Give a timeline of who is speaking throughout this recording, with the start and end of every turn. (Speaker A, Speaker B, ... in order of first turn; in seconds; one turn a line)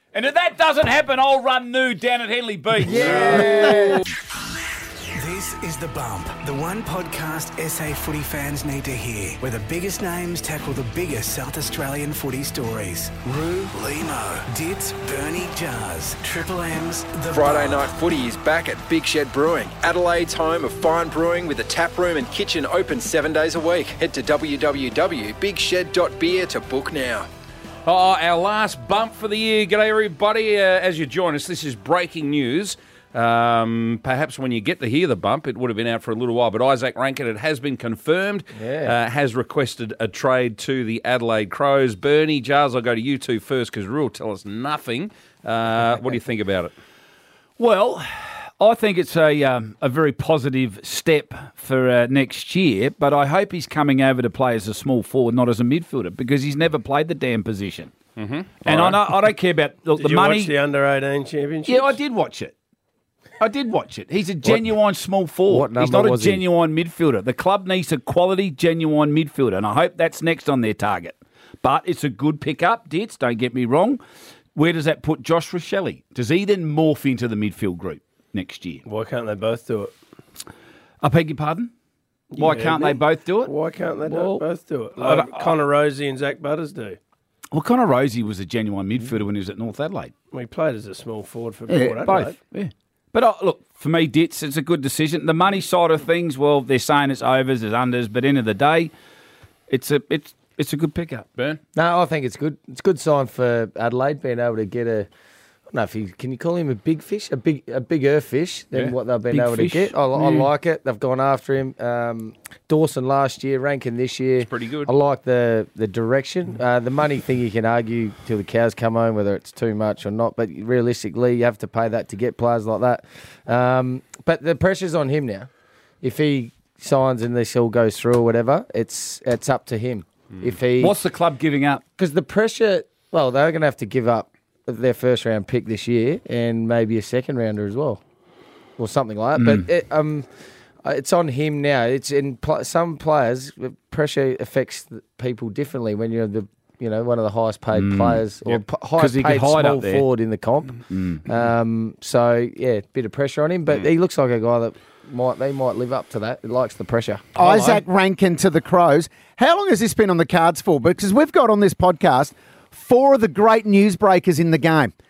Speaker A: 0.1-4.0
Speaker B: 2.9-4.0
Speaker C: 5.2-17.9
Speaker D: 17.3-27.3
Speaker E: 27.9-46.7
Speaker B: 38.5-38.9
Speaker A: 47.6-57.9
Speaker E: 58.2-59.0
Speaker A: 58.6-60.5
Speaker F: 60.0-62.0
Speaker A: 61.7-62.5
Speaker A: 63.4-74.0
Speaker B: 65.5-66.4
Speaker A: 74.5-78.8
Speaker F: 78.9-79.9
Speaker A: 81.0-81.7
Speaker F: 82.3-87.0
Speaker A: 82.4-84.4
Speaker A: 85.0-85.6
Speaker A: 87.5-90.1
Speaker F: 90.3-92.4
Speaker A: 91.7-98.9
Speaker A: 99.7-101.3
Speaker B: 101.8-105.1
Speaker B: 105.7-125.5
Speaker A: 109.3-110.5
Speaker E: 114.4-114.9
Speaker B: 126.0-131.0
Speaker A: 130.8-131.8
Speaker B: 132.0-138.0
Speaker B: 138.8-140.3
Speaker A: 139.4-139.7
Speaker B: 140.8-157.3
Speaker A: 147.7-150.1
Speaker A: 150.9-151.4
Speaker G: 157.4-164.9
Speaker E: 157.4-157.8